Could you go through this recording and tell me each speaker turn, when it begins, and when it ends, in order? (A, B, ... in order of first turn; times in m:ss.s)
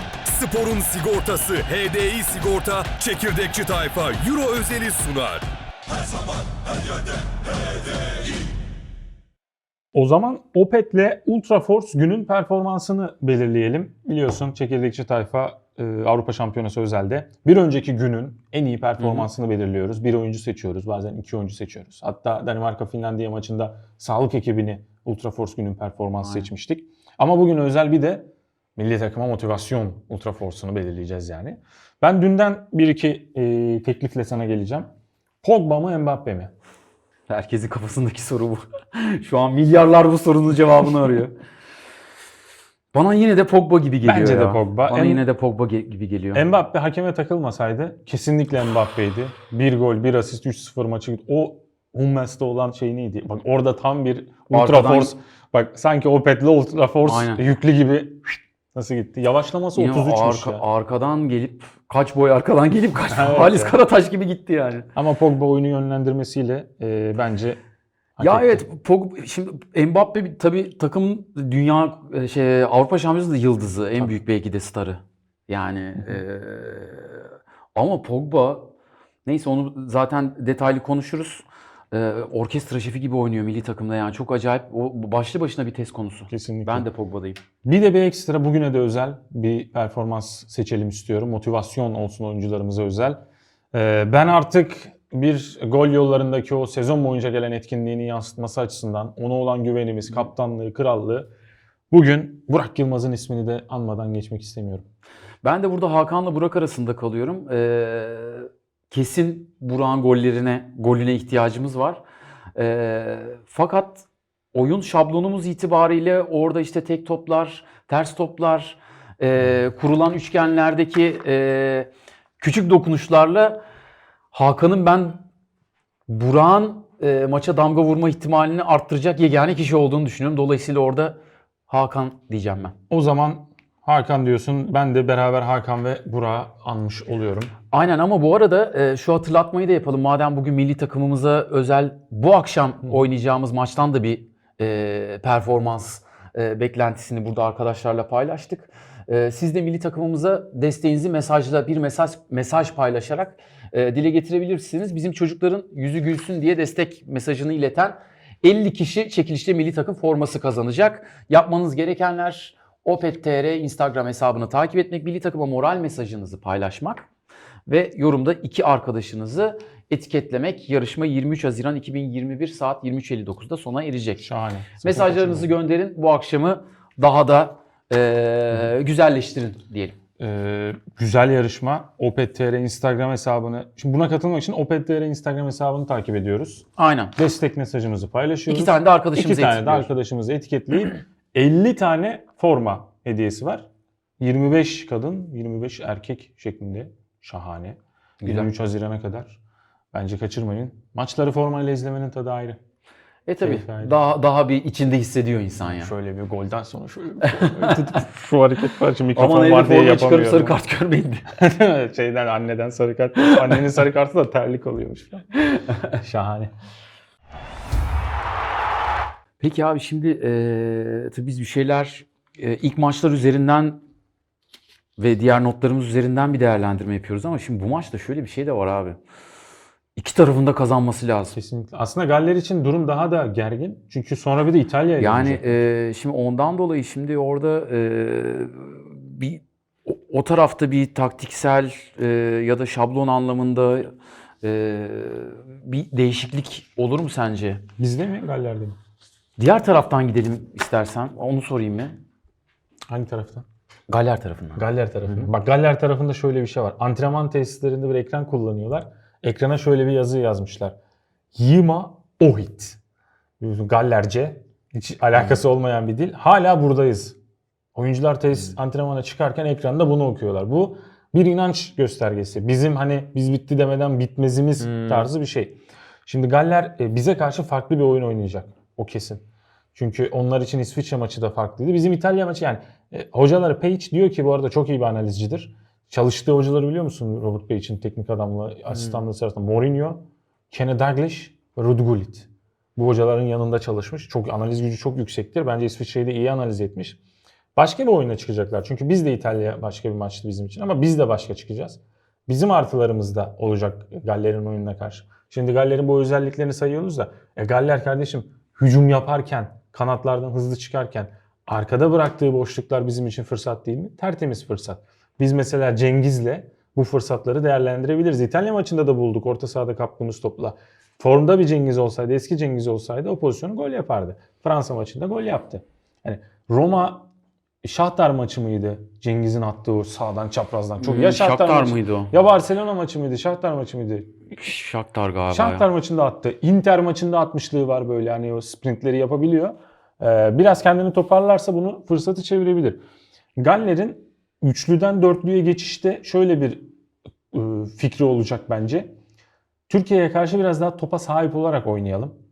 0:00.2-0:05.5 A
0:09.9-0:34.9 B
0:19.0-0:19.3 C
0:26.2-0:26.5 C
0:35.4-0:36.5 B
0:37.3-0:41.4 C
0:42.9-0:46.5 C
0:44.0-0:45.2 B
0:46.3-1:00.6 B
0:54.5-0:55.1 C
0:57.0-0:57.4 C
0:59.7-1:04.9 C
1:03.1-1:03.8 B
1:04.9-1:07.6 B
1:08.2-1:08.6 B
1:08.2-1:18.7 C
1:19.2-1:27.4 C
1:26.3-1:26.8 B
1:27.6-1:33.2 B
1:33.7-1:41.3 B
1:41.9-1:44.8 B
1:45.4-1:52.0 C
1:52.6-2:03.6 C
2:04.3-2:05.2 C
2:06.1-2:12.7 C
2:12.9-2:17.5 B
2:17.7-2:47.1 C
2:47.7-2:54.3 C
2:54.2-2:55.5 B
2:54.8-3:00.0 C
3:00.2-3:13.7 B
3:06.8-3:07.1 C
3:08.5-3:09.9 C
3:14.2-3:19.4 B
3:18.2-3:18.5 C
3:19.9-3:22.6 B
3:23.3-3:25.9 C
3:23.4-3:24.0 B
3:25.8-3:30.6 B
3:27.2-3:28.0 C
3:29.1-3:31.3 C
3:31.4-3:35.3 B
3:35.9-3:36.5 B
3:39.4-3:43.8 C
3:45.0-3:49.0 C
3:50.0-3:51.4 C
3:51.3-3:55.5 B
3:55.0-4:07.6 C
4:07.8-4:08.8 B
4:09.4-4:12.0 C
4:12.9-4:13.4 B
4:13.9-4:15.3 C
4:14.6-4:20.7 B
4:21.3-4:22.8 B
4:23.4-4:27.2 B
4:27.7-4:39.2 B
4:34.6-4:35.1 C
4:39.7-4:57.0 B
4:57.6-5:27.1 B
5:27.6-5:34.2 B
5:30.8-5:32.1 C
5:34.4-5:35.6 C
5:35.3-5:42.8 B
5:43.4-5:46.7 B
5:47.3-5:48.9 B
5:49.7-5:52.2 B